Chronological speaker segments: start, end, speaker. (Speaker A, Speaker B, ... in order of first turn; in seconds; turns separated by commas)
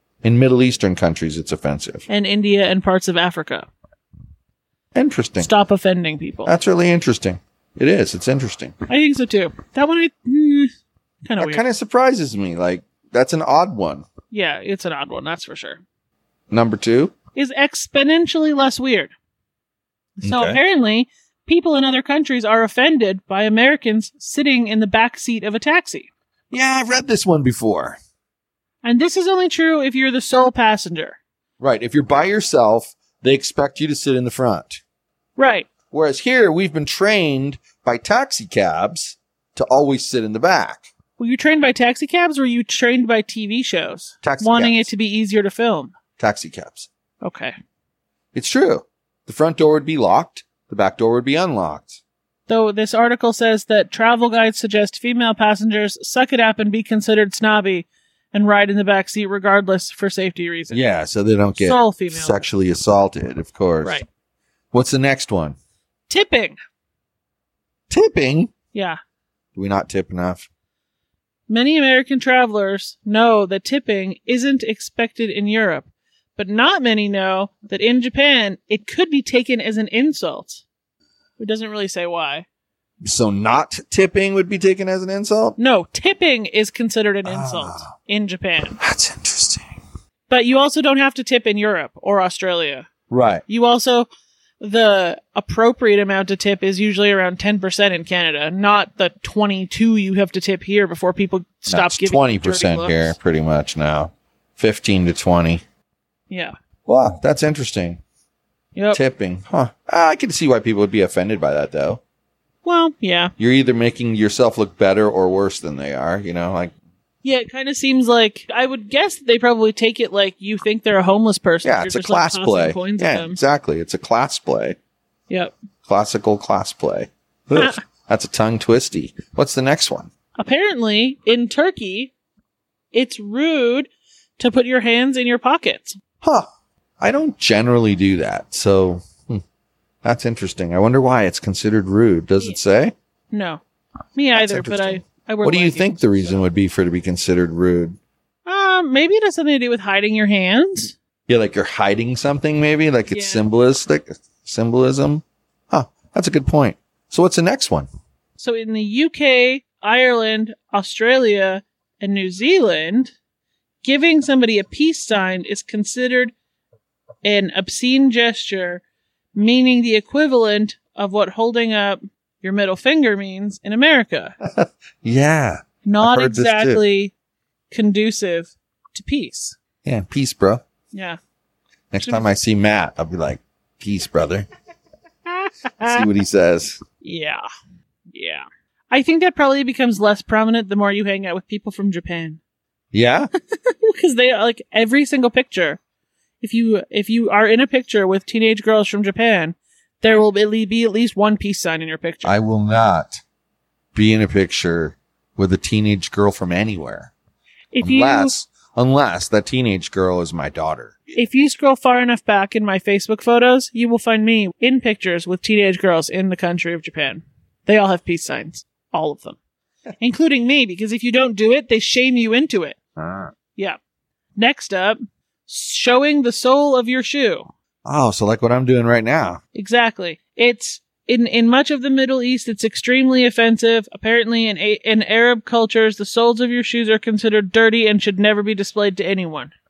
Speaker A: 0.2-2.1, Speaker B: 2.1-3.7, Speaker A: 5.0-5.5, Speaker B: 5.4-6.5, Speaker A: 6.5-8.7, Speaker B: 8.9-10.7, Speaker B: 11.2-11.6, Speaker A: 11.4-14.1, Speaker B: 14.3-15.8, Speaker A: 16.5-17.2, Speaker B: 17.4-19.1, Speaker B: 20.2-26.1, Speaker A: 20.2-20.6, Speaker A: 26.5-28.0, Speaker B: 28.8-31.2, Speaker A: 31.6-34.8, Speaker B: 35.4-35.7, Speaker A: 35.9-40.9, Speaker B: 41.2-45.9, Speaker A: 44.2-44.9, Speaker A: 46.2-46.9, Speaker B: 47.2-47.5, Speaker A: 48.3-52.0, Speaker B: 52.5-60.8, Speaker A: 60.7-64.0, Speaker B: 61.6-62.5, Speaker A: 64.7-65.6, Speaker B: 66.1-66.6, Speaker A: 67.9-68.5, Speaker B: 68.7-69.0, Speaker A: 69.6-70.5, Speaker B: 71.5-80.6, Speaker B: 81.4-82.5, Speaker A: 83.0-85.6, Speaker B: 85.6-88.8, Speaker A: 87.2-87.9, Speaker A: 88.8-89.8, Speaker B: 90.3-92.9, Speaker A: 93.1-93.4, Speaker B: 93.5-94.1, Speaker B: 94.6-103.2, Speaker A: 101.7-105.6, Speaker A: 106.9-108.0, Speaker B: 108.8-109.0, Speaker A: 108.9-112.0, Speaker B: 112.6-113.3, Speaker A: 113.4-116.7, Speaker B: 117.2-123.4, Speaker A: 121.6-124.8, Speaker A: 125.9-130.1, Speaker B: 127.5-127.8, Speaker B: 130.4-132.1, Speaker B: 132.9-136.0, Speaker A: 137.0-139.4, Speaker A: 140.0-142.9, Speaker B: 143.3-143.6, Speaker B: 144.2-146.3, Speaker A: 144.3-148.0, Speaker B: 148.5-150.9, Speaker A: 151.3-157.9, Speaker B: 153.1-153.5, Speaker B: 158.4-163.1, Speaker B: 163.8-166.3, Speaker B: 167.2-168.8, Speaker B: 169.3-174.4, Speaker A: 174.4-176.8, Speaker B: 175.8-177.1, Speaker B: 177.7-179.6, Speaker A: 179.8-180.6, Speaker B: 180.9-181.2, Speaker A: 181.9-184.5, Speaker B: 182.0-182.3, Speaker B: 185.4-186.1, Speaker A: 185.8-186.8, Speaker B: 187.0-187.4, Speaker B: 188.1-192.4, Speaker A: 192.9-193.3, Speaker B: 193.6-195.8, Speaker B: 196.4-202.4, Speaker A: 202.2-203.2, Speaker A: 203.9-207.1, Speaker B: 207.7-208.3, Speaker A: 207.8-211.1, Speaker B: 211.2-219.4, Speaker B: 220.0-222.8, Speaker A: 223.0-223.3, Speaker B: 224.4-227.5, Speaker A: 227.9-229.4, Speaker B: 229.6-239.5